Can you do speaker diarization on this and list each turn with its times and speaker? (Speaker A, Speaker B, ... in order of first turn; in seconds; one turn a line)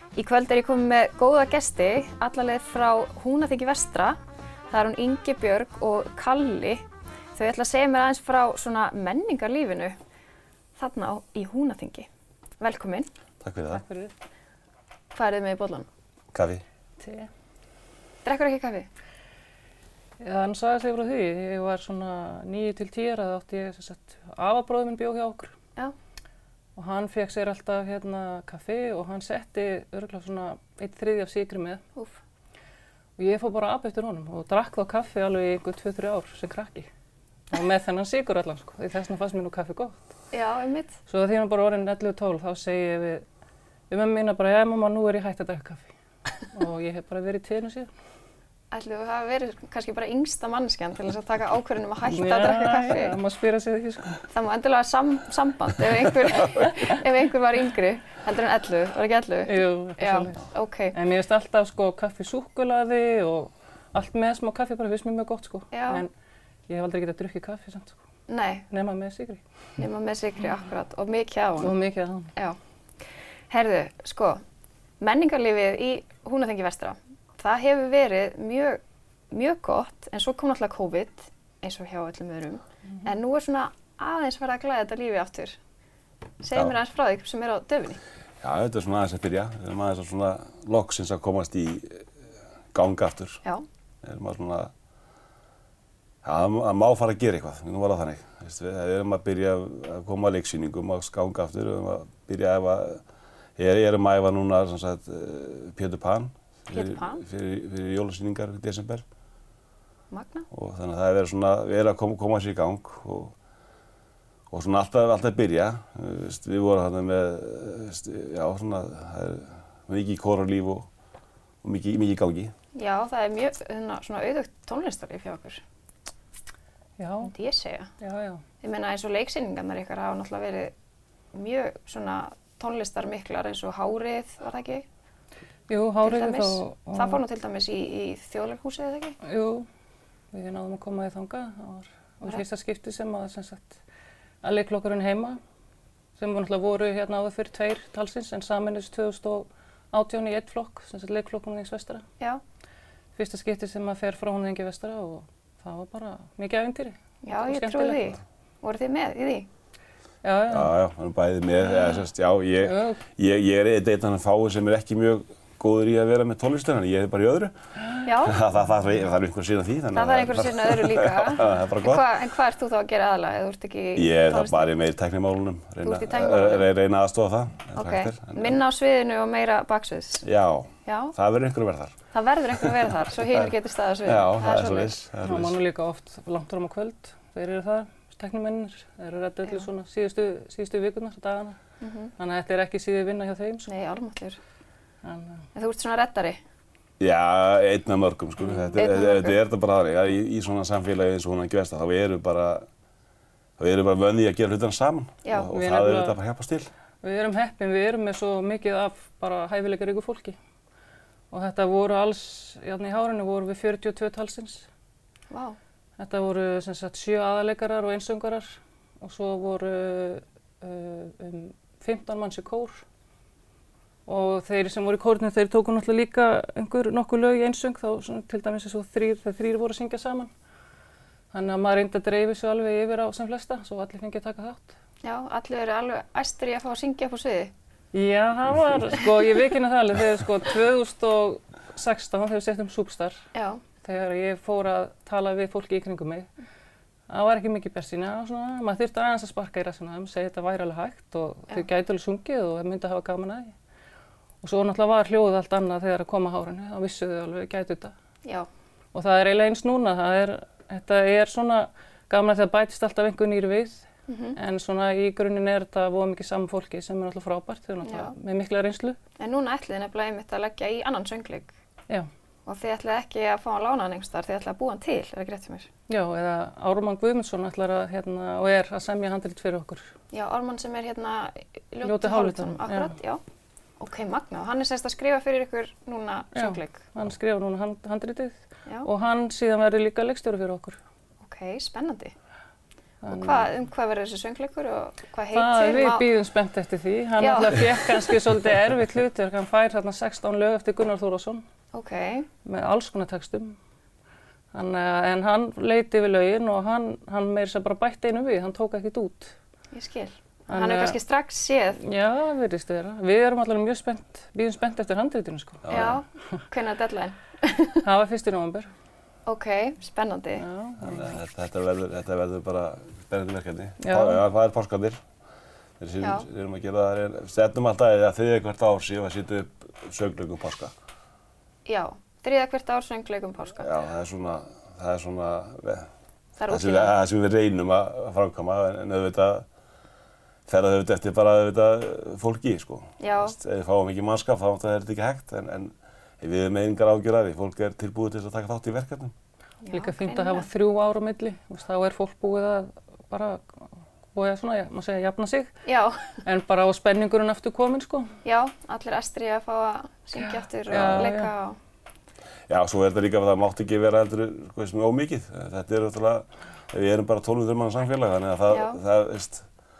Speaker A: 0.1-4.2
Speaker A: 4.7-6.8
Speaker A: 7.3-9.9
Speaker A: 10.8-12.1
Speaker A: 12.6-13.1
Speaker B: 13.4-13.8
Speaker C: 13.7-14.1
Speaker A: 15.1-15.9
Speaker B: 16.3-16.6
Speaker C: 17.0-17.3
Speaker A: 18.2-18.9
Speaker C: 20.2-25.5
Speaker C: 26.8-31.8
Speaker C: 33.2-36.9
Speaker C: 37.5-40.1
Speaker A: 40.3-41.0
Speaker C: 41.1-43.2
Speaker C: 43.9-45.9
Speaker C: 46.5-47.9
Speaker A: 48.7-53.2
Speaker C: 52.1-54.2
Speaker A: 54.3-60.9
Speaker C: 59.5-60.4
Speaker C: 60.9-66.1
Speaker A: 65.7-66.0
Speaker C: 66.7-68.0
Speaker A: 68.3-68.7
Speaker C: 68.7-69.4
Speaker A: 69.8-71.7
Speaker C: 71.6-72.3
Speaker A: 73.5-74.4
Speaker A: 75.0-85.6
Speaker A: 86.4-88.0
Speaker B: 88.4-92.1
Speaker B: 92.7-93.4
Speaker B: 94.0-94.7
Speaker B: 96.2-103.0
Speaker B: 103.6-109.0
Speaker A: 106.7-107.2
Speaker A: 110.1-110.5
Speaker B: 110.5-113.3
Speaker B: 114.5-120.9
Speaker B: 121.6-122.5
Speaker A: 122.7-125.6
Speaker C: 127.0-127.3
Speaker A: 127.2-127.9
Speaker C: 128.0-128.4
Speaker A: 128.6-130.7
Speaker A: 131.3-134.8
Speaker C: 135.7-137.2
Speaker A: 136.0-139.2
Speaker C: 139.2-139.7
Speaker C: 140.3-143.8
Speaker C: 144.4-145.4
Speaker C: 146.2-152.0
Speaker C: 153.2-158.2
Speaker A: 157.2-159.5
Speaker C: 160.2-160.7
Speaker B: 160.5-167.5
Speaker C: 162.6-163.0
Speaker A: 168.0-168.4
Speaker B: 168.2-172.0
Speaker A: 169.9-174.7
Speaker B: 173.9-178.6
Speaker A: 175.8-176.7
Speaker A: 177.8-180.2
Speaker B: 180.2-182.0
Speaker A: 180.8-181.1
Speaker A: 182.1-185.0
Speaker B: 184.0-185.6
Speaker C: 185.2-191.6
Speaker A: 191.8-192.1
Speaker C: 192.2-193.7
Speaker A: 193.7-194.4
Speaker C: 195.0-195.4
Speaker A: 195.5-196.4
Speaker B: 197.0-202.7
Speaker A: 198.7-199.4
Speaker B: 203.6-206.7
Speaker A: 205.2-205.5
Speaker C: 205.5-206.2
Speaker C: 207.0-210.3
Speaker C: 211.3-214.7
Speaker A: 215.3-215.6
Speaker C: 216.0-222.8
Speaker C: 224.1-230.3
Speaker C: 231.3-234.7
Speaker A: 235.0-237.5
Speaker C: 237.9-243.2
Speaker A: 243.3-243.6
Speaker C: 243.8-246.3
Speaker C: 247.1-253.5
Speaker C: 254.4-257.9
Speaker C: 258.9-269.0
Speaker A: 264.1-264.4
Speaker A: 267.8-268.1
Speaker A: 269.2-271.5
Speaker A: 272.4-275.7
Speaker C: 275.9-279.8
Speaker A: 280.1-283.2
Speaker C: 281.8-282.9
Speaker A: 283.8-286.8
Speaker C: 286.3-290.8
Speaker A: 291.2-292.1
Speaker C: 293.0-293.5
Speaker A: 293.1-296.1
Speaker C: 295.3-301.4
Speaker A: 297.2-297.9
Speaker A: 301.7-302.3
Speaker C: 302.4-303.6
Speaker C: 304.5-309.3
Speaker A: 309.7-311.8
Speaker C: 310.5-311.0
Speaker C: 311.8-315.7
Speaker B: 315.6-316.0
Speaker A: 315.7-317.9
Speaker C: 317.8-318.7
Speaker A: 319.3-320.4
Speaker C: 320.4-321.1
Speaker B: 320.8-325.0
Speaker C: 323.8-324.2
Speaker B: 325.8-330.7
Speaker A: 326.0-326.2
Speaker A: 331.6-333.7
Speaker B: 333.6-335.9
Speaker A: 336.4-336.9
Speaker B: 336.5-339.4
Speaker B: 340.5-349.1
Speaker A: 343.0-343.4
Speaker A: 349.6-350.5
Speaker C: 349.7-353.6
Speaker C: 354.1-355.5
Speaker A: 355.6-356.1
Speaker C: 356.2-358.1
Speaker A: 358.2-361.6
Speaker C: 360.2-361.3
Speaker B: 362.5-369.4
Speaker A: 368.5-368.8